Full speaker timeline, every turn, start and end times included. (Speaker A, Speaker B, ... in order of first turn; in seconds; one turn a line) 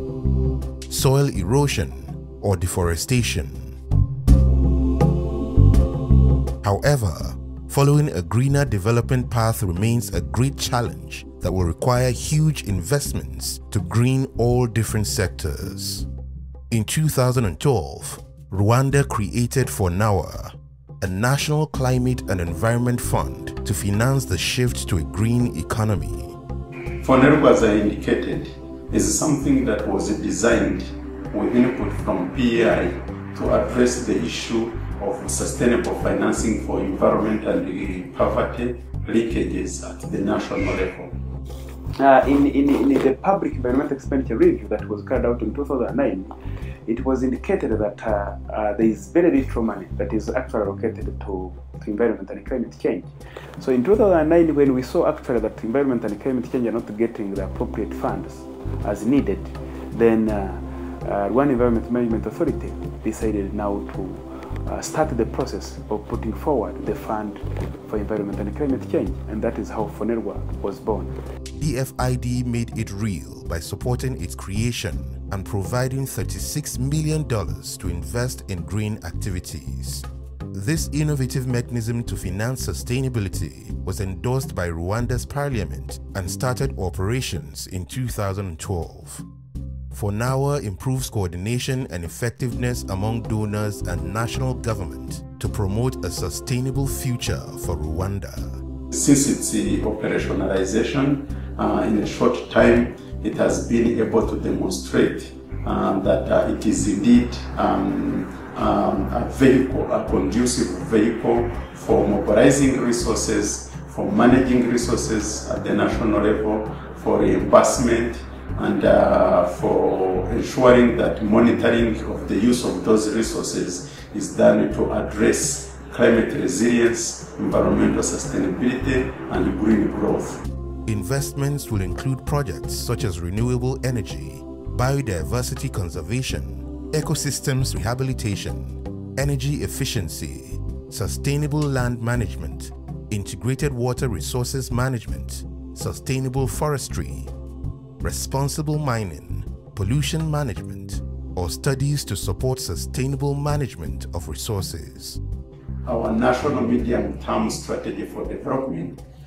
Speaker A: 0.9-3.8
Speaker A: 6.6-16.1
Speaker A: 16.7-26.4
Speaker B: 27.0-41.1
Speaker C: 42.0-46.3
Speaker C: 46.9-71.1
Speaker A: 71.6-89.2
Speaker A: 89.9-98.6
Speaker B: 98.9-130.4
Speaker A: 130.8-147.3
Speaker A: 148.0-155.2
Speaker B: 155.8-159.0